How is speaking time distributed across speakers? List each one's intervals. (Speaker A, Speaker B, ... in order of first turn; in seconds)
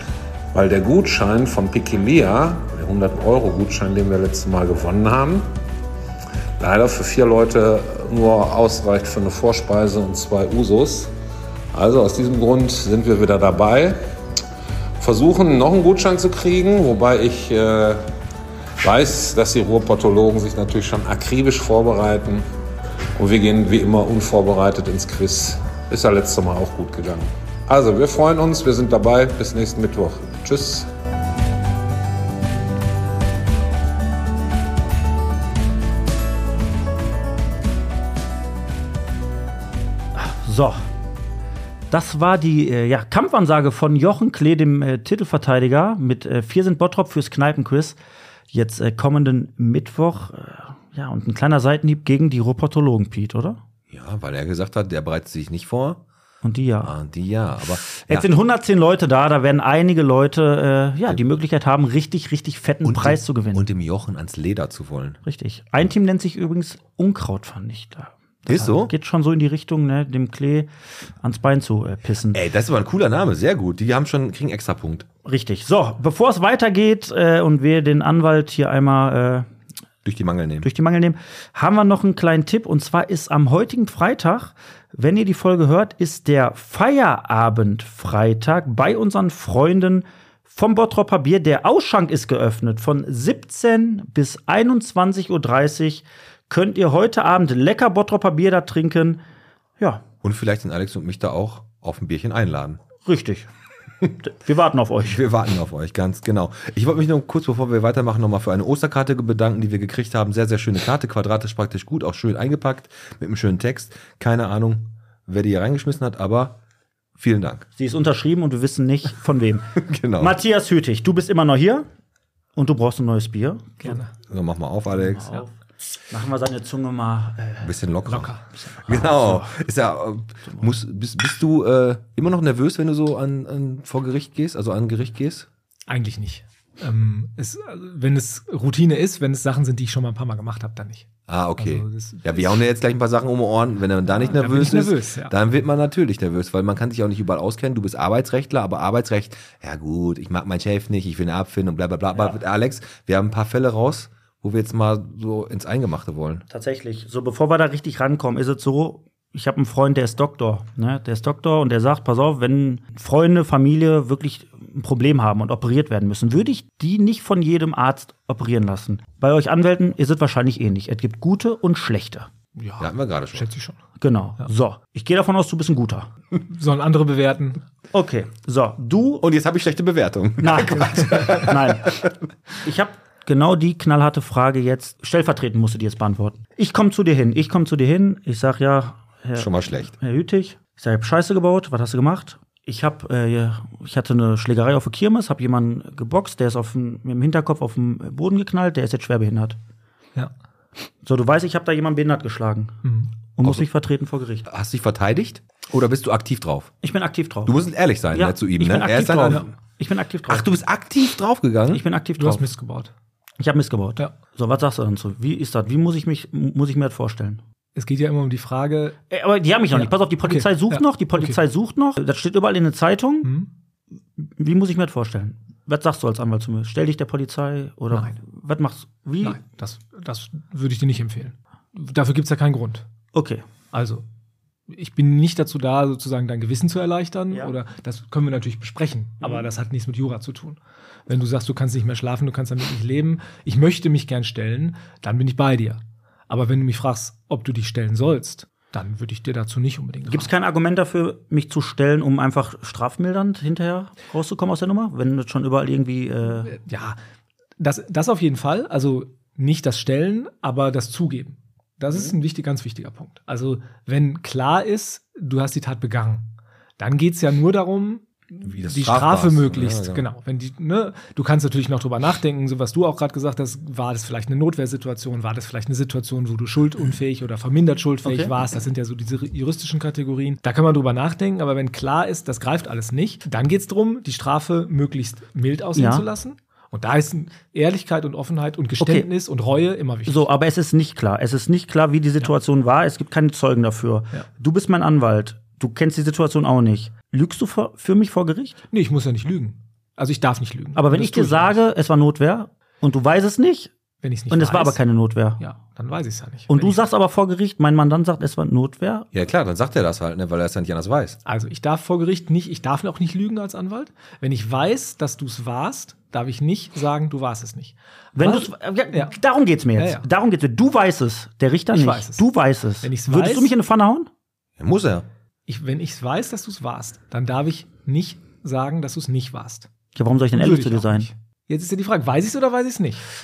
Speaker A: 0.5-5.5, 6.6-11.1, 11.7-14.0, 15.0-18.0, 18.8-22.4, 23.2-30.9
Speaker B: 40.2-40.9, 41.9-48.0, 48.5-53.6, 56.4-56.9, 57.9-63.6, 65.2-70.7, 71.2-72.4, 75.2-79.5, 80.6-99.2, 103.0-103.5, 104.2-105.2, 117.8-121.9, 122.6-123.9, 125.0-125.5, 126.1-127.7, 128.6-129.5, 156.5-172.3, 174.0-176.1, 177.9-179.2, 180.4-182.0, 182.6-199.6, 201.0-202.8, 203.4-204.5, 206.8-207.6, 208.1-210.5, 211.7-212.4, 213.4-217.4, 219.1-223.3, 224.2-229.4, 233.1-233.4, 250.1-256.6, 278.1-278.4, 285.8-286.1, 288.8-289.1, 290.1-298.6, 300.8-303.7, 304.3-305.4, 306.5-309.1, 318.2-324.1, 329.9-331.1
Speaker C: 53.9-56.0, 56.8-58.3, 62.8-65.2, 68.5-68.9, 72.3-75.1, 80.0-80.7, 100.2-102.8, 105.0-116.6, 117.2-117.7, 119.8-120.4, 124.3-125.3, 127.6-128.3, 128.8-135.5, 141.3-156.4, 172.8-173.5, 179.2-182.1, 189.3-189.9, 204.5-206.7, 207.5-209.5, 210.3-211.8, 268.4-270.1, 309.1-311.2, 324.6-325.1
Speaker D: 123.8-124.1, 128.1-128.5, 135.9-142.6, 144.2-145.3, 172.6-173.8, 176.4-177.6, 202.8-203.1, 212.2-212.9, 217.8-219.0, 219.7-221.4, 227.9-228.2, 229.2-232.9, 233.7-234.0, 234.7-250.3, 256.4-257.0, 257.6-290.3, 298.7-301.6, 304.0-304.8, 305.4-306.8, 311.3-319.1, 319.8-320.1, 321.7-322.3, 322.8-323.5, 325.5-329.7, 330.3-333.0